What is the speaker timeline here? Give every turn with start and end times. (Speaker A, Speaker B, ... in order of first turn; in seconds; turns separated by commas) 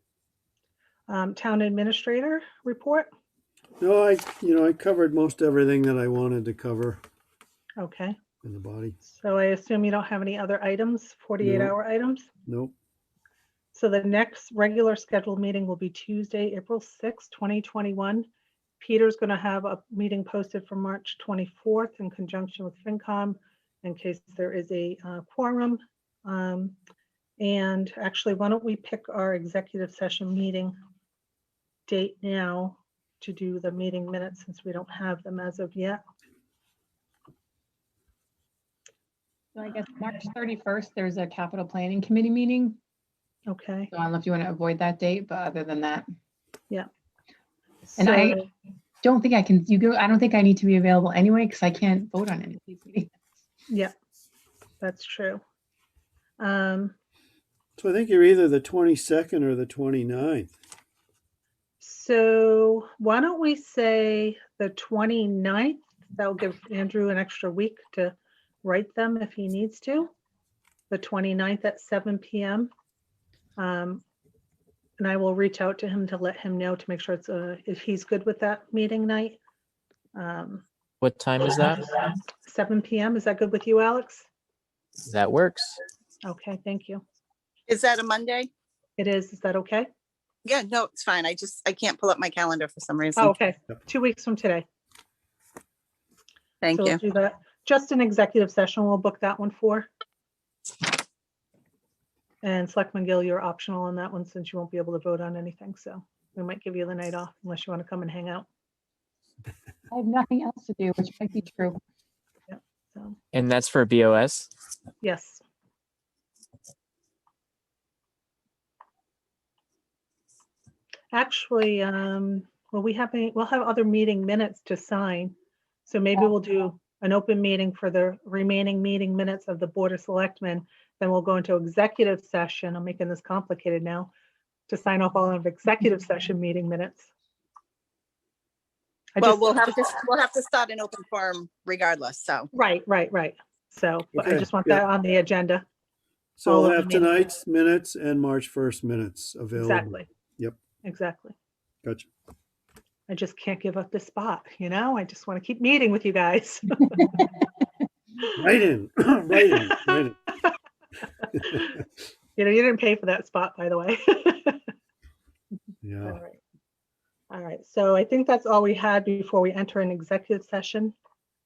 Speaker A: 1.1-3.1, Speaker B: 3.8-7.0, Speaker A: 7.8-8.2, Speaker B: 8.4-9.0, Speaker A: 9.0-12.3, Speaker B: 11.4-11.8, Speaker B: 12.5-12.7, Speaker A: 13.7-18.3, Speaker A: 18.8-26.8, Speaker A: 27.4-30.8, Speaker A: 31.9-36.0, Speaker C: 39.5-42.8, Speaker A: 43.5-43.9, Speaker C: 43.9-46.1, Speaker A: 47.9-48.5, Speaker C: 48.0-48.4, Speaker C: 49.0-53.1, Speaker A: 54.8-55.4, Speaker A: 56.4-56.9, Speaker B: 57.8-60.5, Speaker A: 61.8-70.1, Speaker A: 70.9-72.7, Speaker A: 73.6-74.0, Speaker A: 75.0-79.4, Speaker A: 80.2-80.7, Speaker D: 81.0-81.9, Speaker A: 82.4-84.3, Speaker D: 85.0-85.8, Speaker A: 86.2-87.0, Speaker E: 87.7-88.5, Speaker A: 89.0-89.9, Speaker E: 90.5-93.3, Speaker A: 93.2-94.7, Speaker E: 96.6-97.0, Speaker A: 96.7-99.9, Speaker A: 102.4-108.5, Speaker C: 109.9-111.8, Speaker A: 112.5-113.2, Speaker D: 113.3-114.5, Speaker A: 115.0-115.4, Speaker A: 121.1-125.3, Speaker A: 125.9-134.1, Speaker A: 134.7-137.1, Speaker A: 139.2-139.7, Speaker E: 139.2-142.5, Speaker A: 142.5-145.7, Speaker B: 144.2-144.8, Speaker B: 146.4-150.6, Speaker A: 146.5-147.2, Speaker A: 149.6-150.1, Speaker A: 150.8-151.3, Speaker A: 153.1-157.1, Speaker B: 158.3-160.2, Speaker A: 159.4-159.8, Speaker A: 161.3-161.7, Speaker A: 162.4-164.6, Speaker B: 165.8-166.2, Speaker A: 166.1-166.4, Speaker A: 167.3-170.9